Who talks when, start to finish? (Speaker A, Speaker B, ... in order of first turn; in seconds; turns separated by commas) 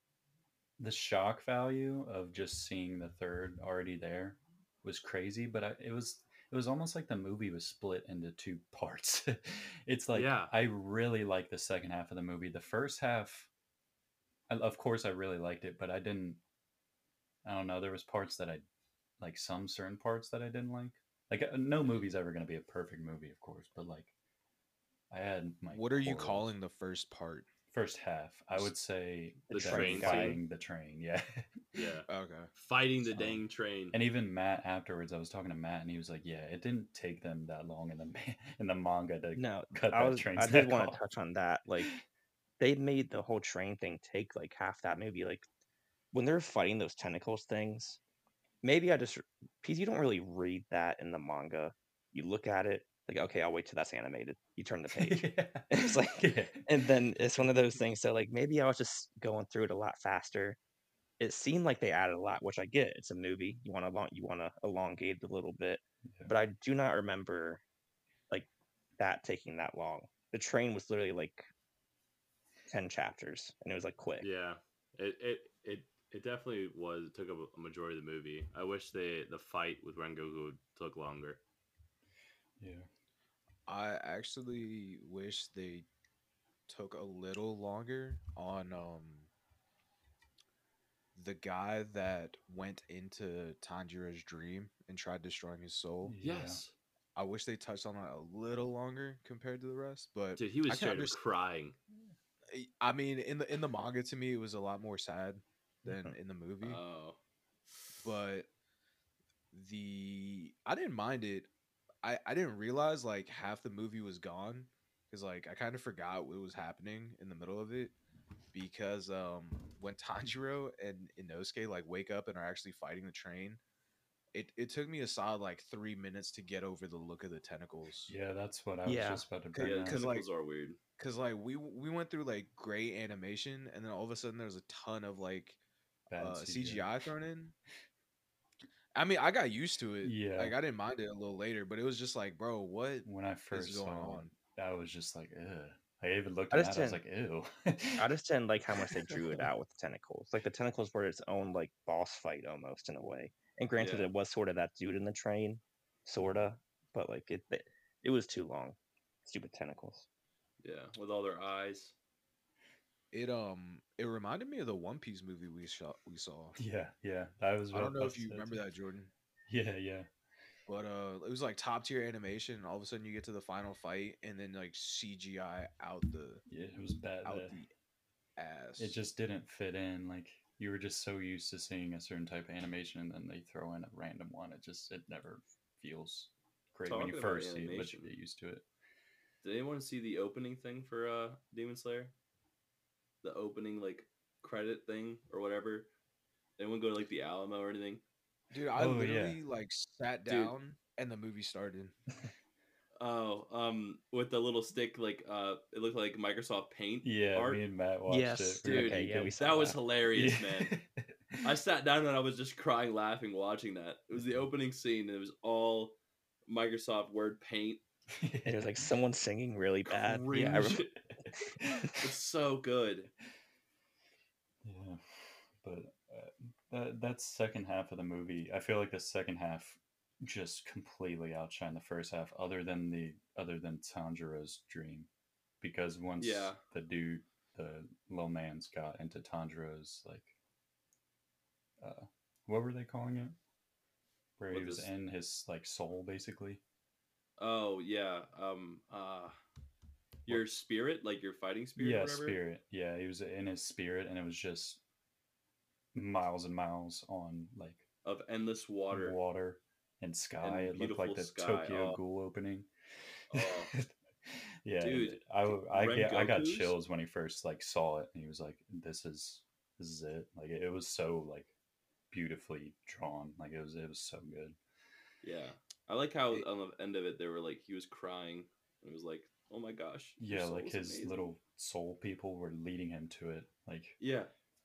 Speaker A: 0.8-13.5, Speaker B: 10.1-10.5, Speaker A: 14.5-16.4, Speaker A: 17.4-18.6, Speaker A: 19.2-24.1, Speaker A: 25.1-26.5, Speaker C: 25.7-27.5, Speaker A: 27.7-31.9, Speaker D: 29.5-30.4, Speaker B: 29.5-30.4, Speaker B: 31.7-34.0, Speaker C: 32.1-32.5, Speaker A: 33.1-41.0, Speaker D: 39.3-41.9, Speaker D: 42.6-45.4, Speaker D: 46.1-48.0, Speaker D: 48.6-60.6, Speaker A: 54.9-56.8, Speaker D: 61.2-67.6, Speaker D: 68.3-71.5, Speaker D: 72.7-74.3, Speaker B: 74.2-81.4, Speaker A: 82.6-82.9, Speaker C: 83.7-85.9, Speaker C: 86.7-89.3, Speaker C: 91.1-96.1, Speaker A: 96.0-96.6, Speaker B: 96.2-96.7, Speaker C: 97.2-101.2, Speaker B: 100.4-101.8, Speaker C: 102.5-106.8, Speaker B: 106.6-107.2, Speaker C: 108.0-108.5, Speaker C: 109.5-111.5, Speaker C: 112.0-117.9, Speaker C: 118.5-123.6, Speaker C: 124.3-128.1, Speaker A: 128.1-130.1, Speaker D: 128.8-129.2, Speaker C: 129.5-130.3, Speaker B: 129.6-130.8, Speaker C: 131.0-135.6, Speaker A: 136.1-136.9, Speaker C: 136.2-137.5, Speaker C: 138.9-144.3, Speaker A: 140.0-140.6, Speaker A: 143.0-148.1, Speaker D: 146.5-147.0, Speaker D: 148.0-160.1, Speaker A: 149.1-149.4, Speaker B: 153.8-154.1, Speaker B: 160.6-161.9, Speaker C: 163.1-166.6, Speaker A: 166.6-168.6, Speaker C: 167.7-169.1, Speaker A: 169.5-170.1, Speaker C: 170.7-176.4, Speaker A: 176.5-177.6, Speaker C: 177.2-177.7, Speaker C: 178.4-179.0, Speaker A: 178.8-188.6, Speaker B: 186.9-188.1, Speaker B: 189.4-192.1, Speaker B: 193.2-195.9, Speaker B: 196.6-198.0, Speaker C: 198.5-201.9, Speaker A: 198.7-199.4, Speaker B: 200.2-200.5, Speaker B: 203.0-207.6, Speaker A: 207.0-209.3, Speaker D: 208.1-209.8, Speaker B: 208.6-210.8, Speaker A: 210.1-211.5, Speaker B: 211.4-215.9, Speaker B: 216.5-217.8, Speaker A: 218.1-218.8, Speaker D: 218.4-220.9, Speaker B: 219.9-220.9, Speaker A: 221.6-221.9, Speaker B: 221.9-223.1, Speaker A: 224.6-235.1, Speaker A: 235.6-240.3, Speaker B: 236.2-236.6, Speaker A: 241.8-243.4, Speaker A: 244.4-246.6, Speaker B: 244.5-244.9, Speaker B: 247.4-249.4, Speaker B: 250.2-252.4, Speaker A: 251.8-254.8, Speaker A: 255.9-257.9, Speaker B: 258.0-259.2, Speaker A: 258.9-262.7, Speaker B: 260.4-262.0, Speaker B: 263.3-263.7, Speaker A: 263.3-271.5, Speaker B: 264.8-266.7, Speaker A: 272.1-274.6, Speaker B: 275.2-281.2, Speaker A: 280.2-284.0, Speaker B: 284.0-284.3